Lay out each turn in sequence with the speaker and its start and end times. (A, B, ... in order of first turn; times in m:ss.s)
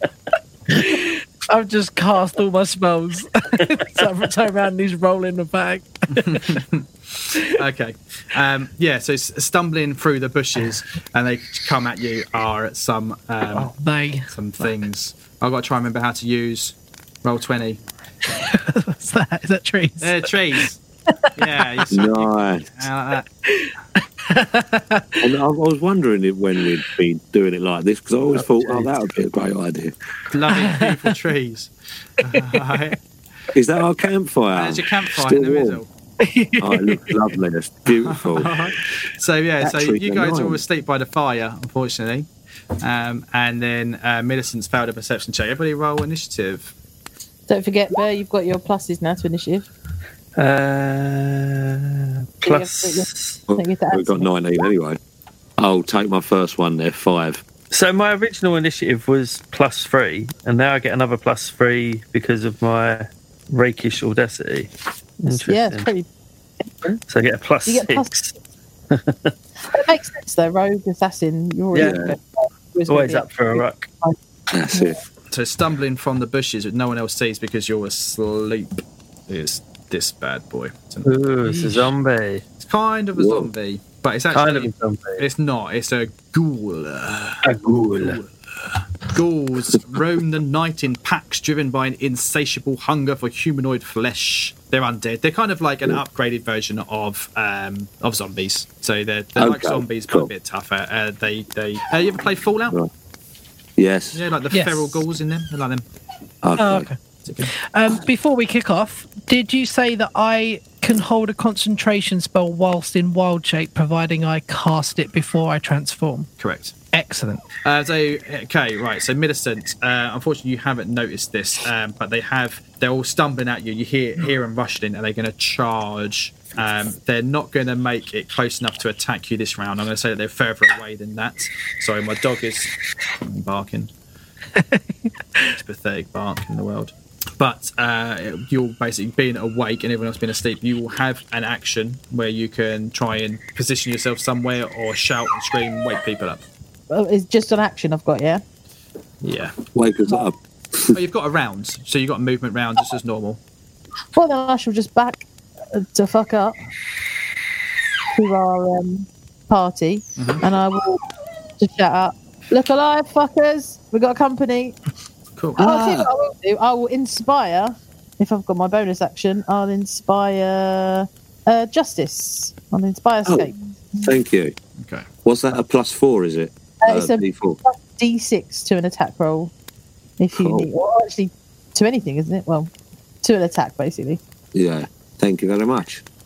0:00.7-0:06.6 A
0:06.2-0:13.7 B
0:13.5-0:14.3 A
0:14.3-0:17.8 B
0:18.3-0:20.3 A
0:20.0-0:20.8 B
0:21.2-0:21.8 A
0:21.4-0:23.2 B
0:21.9-0:22.7 C
0:23.4-0:25.2 A
0:25.2-0:29.9 C
0:30.3-0:33.0 B
0:30.5-0:31.0 A
0:32.2-0:32.8 A
0:33.5-0:35.8 C
0:34.5-0:35.9 B
0:36.2-0:37.2 A
0:36.6-0:38.5 C
0:38.0-0:42.3 B
0:39.6-0:40.6 C
0:42.8-0:46.7 B
0:47.5-0:49.7 D
0:50.4-0:53.4 E
0:52.4-0:54.3 D
0:53.5-0:55.0 C
0:55.6-0:57.4 C
0:57.7-1:04.7 E
1:05.2-1:05.9 E
1:05.3-1:06.1 D
1:06.6-1:07.0 D
1:07.1-1:08.3 E
1:07.6-1:08.1 D
1:08.9-1:09.3 E
1:09.6-1:14.2 D
1:11.7-1:12.0 E
1:11.7-1:12.1 C
1:12.9-1:13.9 E
1:14.5-1:15.0 C
1:14.7-1:15.0 D
1:15.3-1:21.1 B
1:21.0-1:22.4 E
1:21.4-1:21.9 A
1:22.6-1:28.3 B
1:23.2-1:23.5 C
1:24.3-1:25.2 E
1:27.4-1:28.2 E
1:29.1-1:42.8 B
1:39.4-1:40.3 C
1:43.8-1:44.2 C
1:44.1-1:45.8 B
1:44.5-1:45.0 A
1:46.4-1:46.9 C
1:46.6-1:56.3 A
1:47.2-1:47.5 B
1:56.4-1:56.8 B
1:56.9-1:57.5 A
1:57.6-2:13.9 B
2:14.6-2:15.5 A
2:15.5-2:26.4 B
2:26.9-2:28.4 D
2:29.2-2:29.6 B
2:29.7-2:31.0 C
2:30.9-2:33.4 B
2:34.1-2:36.6 D
2:38.1-2:41.0 D
2:40.2-2:40.4 B
2:41.6-2:44.8 D
2:45.6-2:46.1 C
2:45.6-2:53.6 D
2:54.0-2:54.5 C
2:54.8-2:55.1 B
2:55.2-2:57.6 C
2:56.8-2:59.5 D
3:00.2-3:02.7 D
3:00.3-3:00.7 C
3:03.2-3:04.2 D
3:04.5-3:06.0 C